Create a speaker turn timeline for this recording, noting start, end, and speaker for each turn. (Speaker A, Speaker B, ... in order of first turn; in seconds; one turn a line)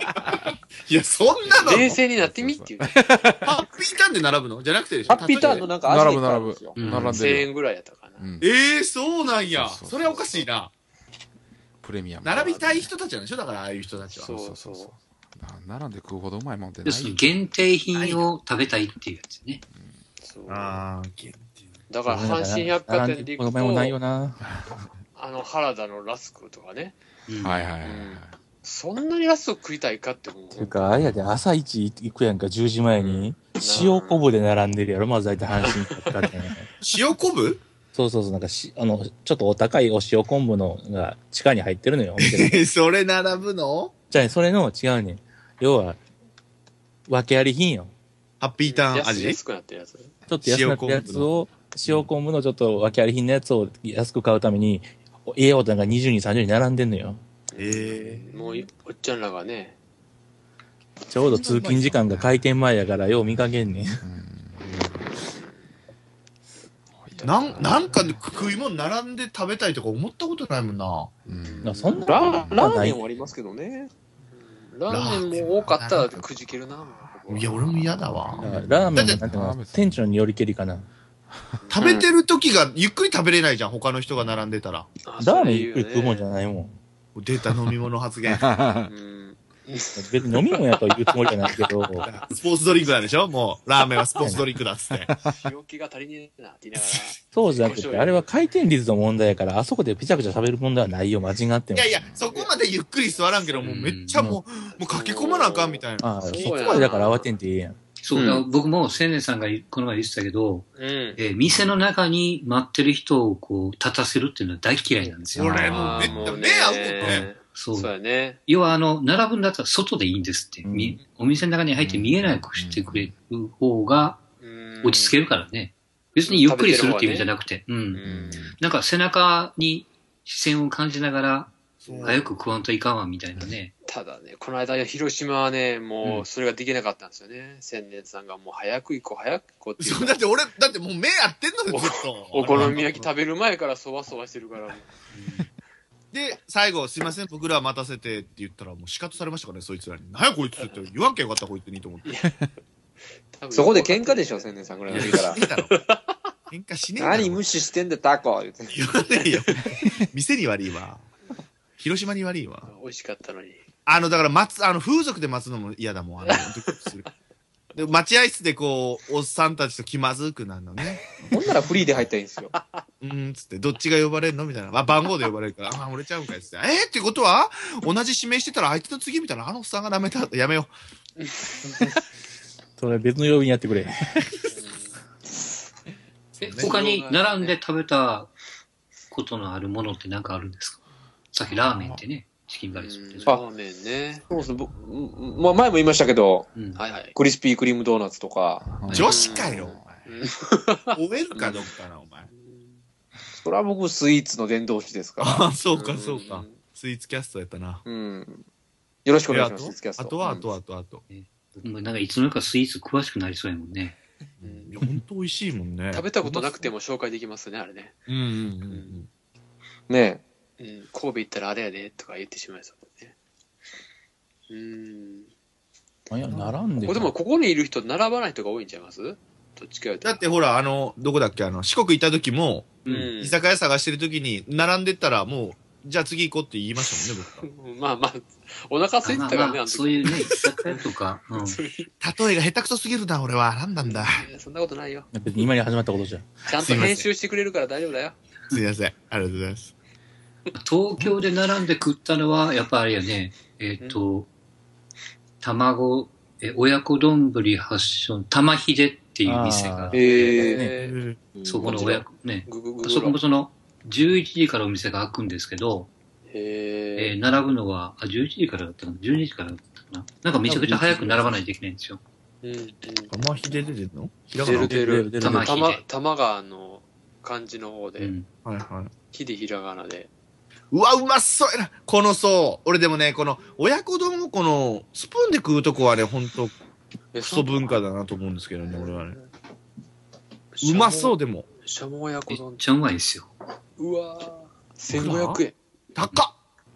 Speaker A: 0.8-2.0
Speaker B: 1.5-3.5
Speaker C: 1.6-3.3
Speaker A: 3.4-5.7
Speaker D: 5.1-6.8
Speaker C: 5.1-5.7
Speaker B: 5.3-7.5
Speaker E: 6.8-7.2
Speaker C: 6.9-8.2
Speaker B: 8.2-8.5
Speaker A: 8.4-10.7
Speaker B: 9.5-10.5
Speaker B: 11.8-12.9
Speaker A: 12.2-14.3
Speaker C: 12.3-12.6
Speaker C: 14.2-14.9
Speaker B: 14.2-17.4
Speaker E: 16.8-19.6
Speaker A: 17.9-18.2
Speaker B: 19.8-20.0
Speaker C: 20.2-20.8
Speaker A: 20.5-21.5
Speaker C: 21.9-24.0
Speaker F: 22.1-24.4
Speaker B: 24.4-24.7
Speaker C: 25.1-27.0
Speaker E: 27.3-27.7
Speaker B: 27.4-28.4
Speaker C: 27.8-31.0
Speaker F: 30.6-36.7
Speaker C: 33.0-34.0
Speaker D: 33.6-34.2
Speaker C: 35.6-36.3
Speaker A: 36.8-37.6
Speaker F: 37.9-42.6
Speaker A: 42.2-43.9
Speaker F: 44.1-46.0
Speaker F: 47.1-47.9
Speaker A: 48.4-49.4
Speaker C: 48.6-50.1
Speaker F: 50.3-57.2
Speaker A: 50.4-51.3
Speaker C: 57.5-59.8
Speaker A: 57.6-58.6
Speaker F: 61.1-64.0
Speaker A: 61.3-61.9
Speaker B: 61.9-62.4
Speaker B: 64.0-65.2
Speaker B: 66.9-68.2
Speaker C: 67.2-67.9
Speaker A: 67.2-71.2
Speaker B: 71.2-72.8
Speaker C: 71.4-72.0
Speaker F: 71.6-73.0
Speaker D: 72.1-73.9
Speaker C: 74.3-77.5
Speaker A: 74.9-76.3
Speaker A: 77.3-79.2
Speaker B: 77.6-80.0
Speaker F: 78.4-80.9
Speaker C: 81.6-82.0
Speaker A: 81.7-84.9
Speaker C: 85.0-86.3
Speaker F: 85.2-86.8
Speaker A: 87.1-88.5
Speaker B: 88.3-88.9
Speaker C: 88.9-92.3
Speaker F: 90.0-92.1
Speaker A: 92.0-95.1
Speaker B: 95.0-95.4
Speaker C: 95.3-98.3
Speaker A: 96.8-97.1
Speaker F: 97.3-102.0
Speaker A: 101.7-106.9
Speaker C: 103.2-103.8
Speaker E: 103.6-104.1
Speaker F: 104.1-104.4
Speaker C: 104.8-107.3
Speaker F: 106.0-107.8
Speaker E: 108.0-115.8
Speaker D: 108.1-108.4
Speaker C: 110.8-111.2
Speaker B: 115.3-116.3
Speaker A: 115.3-117.3
Speaker C: 115.7-118.4
Speaker E: 117.0-117.9
Speaker E: 118.5-124.2
Speaker F: 120.6-121.0
Speaker B: 121.8-123.1
Speaker C: 124.4-125.1
Speaker E: 124.8-128.0
Speaker C: 126.2-127.3
Speaker C: 127.9-128.5
Speaker B: 128.0-128.6
Speaker E: 128.6-133.7
Speaker A: 131.8-132.3
Speaker C: 131.9-132.3
Speaker C: 133.8-140.2
Speaker A: 139.8-143.1
Speaker C: 141.7-144.9
Speaker E: 145.1-145.5
Speaker A: 146.1-152.1
Speaker C: 152.0-152.4
Speaker C: 153.3-156.2
Speaker D: 153.5-155.4
Speaker A: 154.9-155.8
Speaker A: 156.5-157.4
Speaker D: 157.0-158.8
Speaker A: 158.7-161.1
Speaker A: 161.8-162.7
Speaker C: 162.7-163.6
Speaker A: 163.8-167.1
Speaker C: 166.2-167.1
Speaker A: 167.7-171.3
Speaker D: 171.3-172.5
Speaker C: 172.5-172.8
Speaker A: 173.0-180.7
Speaker C: 181.2-182.0
Speaker F: 182.8-184.2
Speaker C: 184.5-185.5
Speaker A: 186.3-186.7
Speaker E: 186.4-188.3
Speaker C: 186.5-187.5
Speaker E: 189.1-190.8
Speaker E: 191.3-193.3
Speaker B: 191.5-192.0
Speaker C: 192.7-194.2
Speaker D: 194.3-196.5
Speaker E: 196.6-196.8
Speaker C: 196.8-197.1
Speaker D: 197.1-198.7
Speaker B: 198.6-200.0
Speaker E: 198.9-199.3
Speaker A: 198.9-200.0
Speaker C: 199.0-201.0
Speaker A: 200.9-202.3
Speaker C: 202.3-202.8
Speaker D: 203.3-205.4
Speaker A: 205.2-207.8
Speaker C: 205.7-206.6
Speaker D: 207.8-208.4
Speaker D: 209.0-210.5
Speaker A: 209.3-211.0
Speaker E: 211.1-214.0
Speaker A: 214.4-216.7
Speaker C: 214.4-214.8
Speaker C: 215.9-218.0
Speaker A: 218.1-219.1
Speaker C: 218.7-219.0
Speaker D: 219.9-220.2
Speaker C: 220.6-223.1
Speaker C: 224.5-225.3
Speaker F: 226.1-227.1
Speaker C: 226.3-230.2
Speaker A: 230.0-237.5
Speaker E: 232.8-233.1
Speaker C: 232.8-233.4
Speaker C: 236.9-241.9
Speaker E: 239.0-241.6
Speaker A: 242.0-244.3
Speaker C: 243.8-245.1
Speaker F: 245.1-246.4
Speaker C: 246.4-248.2
Speaker A: 246.6-247.1
Speaker A: 248.5-249.7
Speaker E: 250.5-254.3
Speaker E: 255.4-260.4
Speaker F: 259.2-260.7
Speaker D: 259.9-260.6
Speaker C: 259.9-261.0
Speaker A: 260.7-261.2
Speaker D: 261.4-262.0
Speaker E: 261.4-265.9
Speaker C: 261.6-263.2
Speaker C: 266.3-267.1
Speaker E: 267.0-272.0
Speaker F: 270.5-271.3
Speaker C: 272.4-273.2
Speaker A: 273.1-274.9
Speaker C: 274.4-278.1
Speaker F: 274.5-275.6
Speaker E: 275.2-275.8
Speaker E: 278.0-278.3
Speaker A: 278.4-278.9
Speaker C: 279.1-280.1
Speaker A: 280.7-286.6
Speaker C: 287.1-287.8
Speaker A: 287.2-289.2
Speaker C: 288.7-289.3
Speaker C: 290.5-292.6
Speaker A: 290.6-291.4
Speaker E: 292.3-293.3
Speaker C: 293.8-295.6
Speaker A: 294.9-295.4
Speaker A: 295.9-296.3